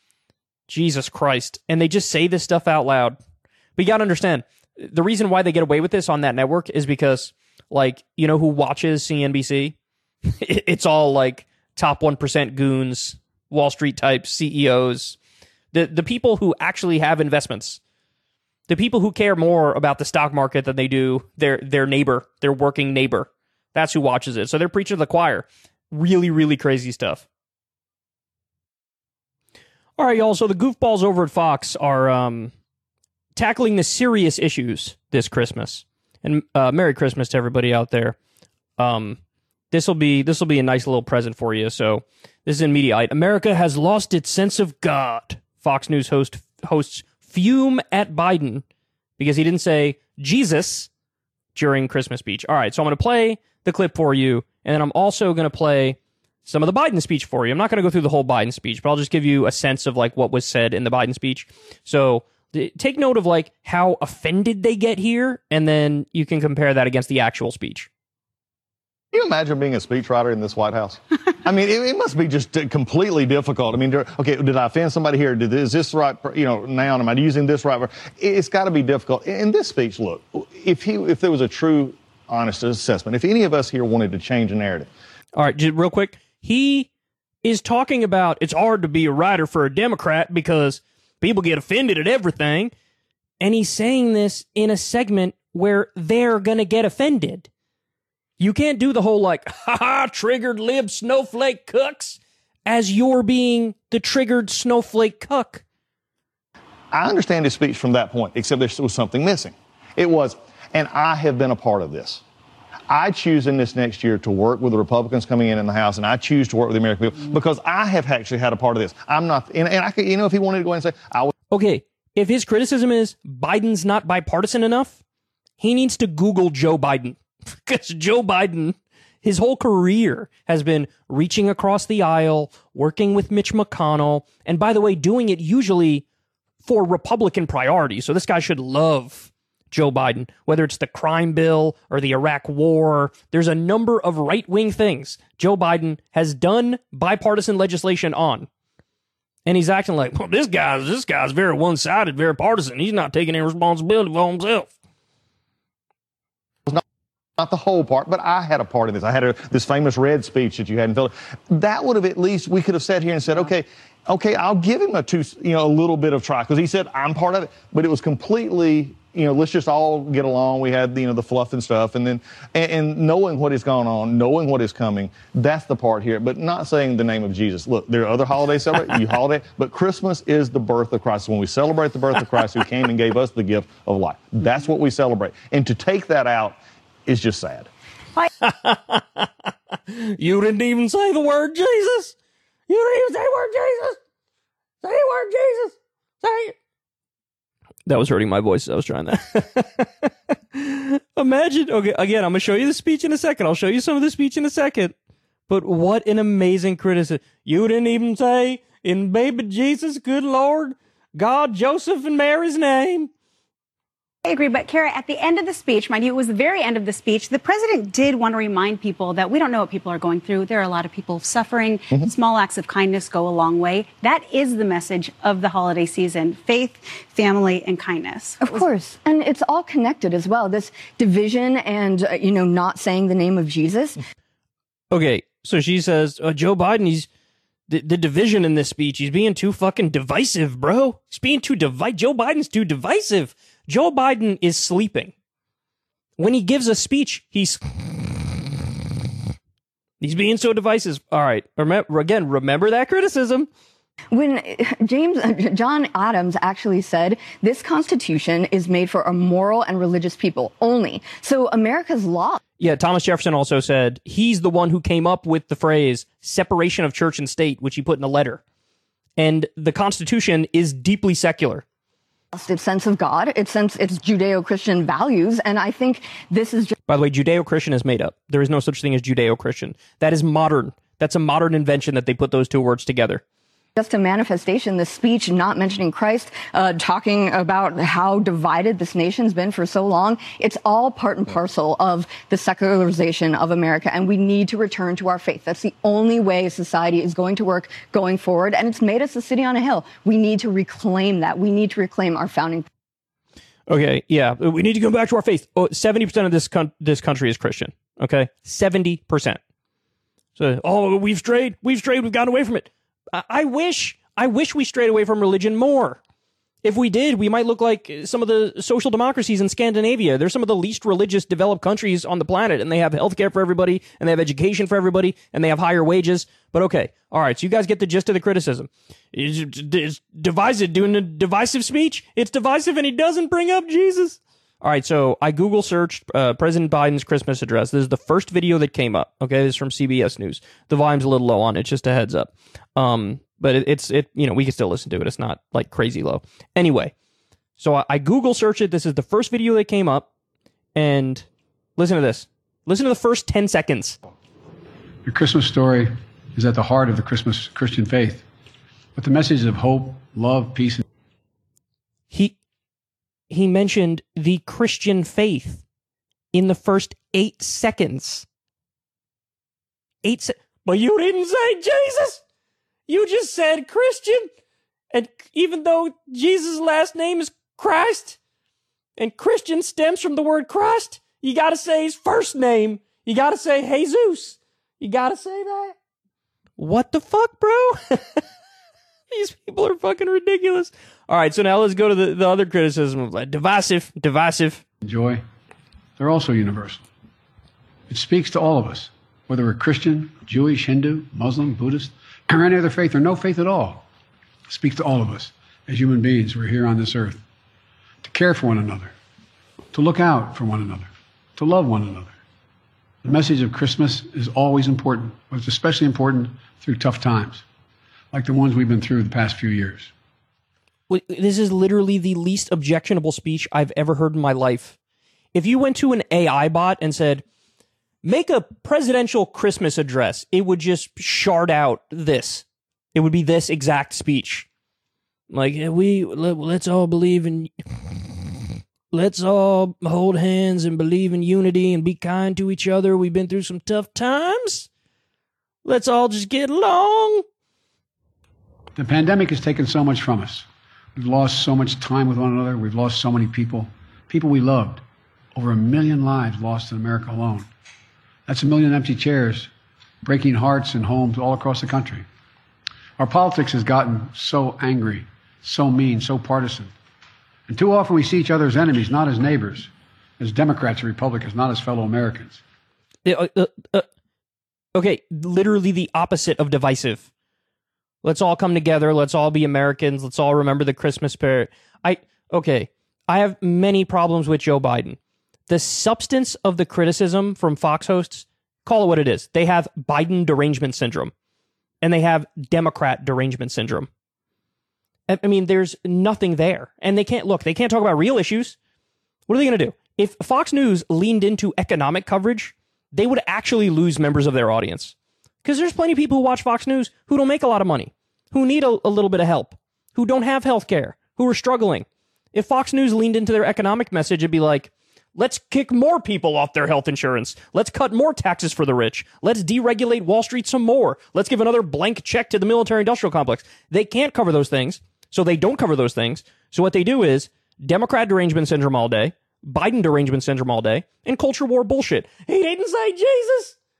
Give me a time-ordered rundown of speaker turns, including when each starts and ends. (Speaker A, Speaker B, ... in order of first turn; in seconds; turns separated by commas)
Speaker A: 0.7-3.2, Speaker A: 3.8-15.2, Speaker A: 15.7-17.8, Speaker A: 18.7-27.2, Speaker A: 30.0-32.5, Speaker A: 33.4-38.2, Speaker A: 38.8-39.2, Speaker A: 39.7-48.6, Speaker A: 49.2-50.9, Speaker A: 51.5-67.9, Speaker B: 69.1-84.9, Speaker A: 85.3-86.9, Speaker A: 87.4-92.7, Speaker A: 93.4-97.5, Speaker A: 98.4-105.6, Speaker B: 106.9-112.2, Speaker B: 112.9-121.3, Speaker A: 121.5-125.0, Speaker A: 125.6-136.0, Speaker A: 136.6-148.5, Speaker A: 149.5-154.7, Speaker B: 157.4-187.7, Speaker A: 188.4-189.3, Speaker A: 189.9-192.2, Speaker A: 192.7-194.0, Speaker A: 194.8-196.6, Speaker A: 197.9-204.9, Speaker A: 205.5-213.1, Speaker C: 214.2-228.7, Speaker D: 228.4-234.0, Speaker A: 234.9-237.1, Speaker A: 237.7-245.1, Speaker A: 246.2-248.3, Speaker A: 250.0-253.5, Speaker D: 254.1-262.4, Speaker A: 262.6-268.4, Speaker A: 269.2-271.6, Speaker D: 272.3-276.7, Speaker A: 276.9-283.2, Speaker D: 283.8-302.7, Speaker A: 303.7-309.4, Speaker A: 310.4-316.0, Speaker A: 316.6-346.9, Speaker A: 347.6-350.1, Speaker A: 350.8-351.3, Speaker A: 351.8-354.0, Speaker E: 355.0-358.2, Speaker E: 358.9-360.8, Speaker A: 363.3-365.6, Speaker A: 366.3-368.3, Speaker A: 370.0-372.2, Speaker A: 372.9-374.3, Speaker A: 374.9-378.2, Speaker A: 379.0-385.8, Speaker A: 386.6-388.2, Speaker A: 389.1-394.6, Speaker E: 394.8-395.2, Speaker E: 396.0-396.9, Speaker E: 397.9-403.8, Speaker E: 404.5-407.2, Speaker E: 408.0-408.9, Speaker E: 409.7-412.2, Speaker E: 413.0-417.4, Speaker E: 418.1-419.9, Speaker A: 420.9-424.8, Speaker A: 425.3-427.2, Speaker A: 428.0-432.4, Speaker A: 432.9-434.5, Speaker A: 435.3-437.9, Speaker A: 438.9-444.7, Speaker A: 445.6-447.2, Speaker E: 448.8-454.8, Speaker E: 455.3-457.5, Speaker E: 458.3-459.5, Speaker E: 460.0-462.1, Speaker E: 463.0-466.7, Speaker E: 467.5-472.4, Speaker A: 473.1-473.9, Speaker A: 474.8-477.1, Speaker A: 478.0-491.1, Speaker A: 491.8-493.9, Speaker A: 495.1-498.6, Speaker A: 499.3-533.6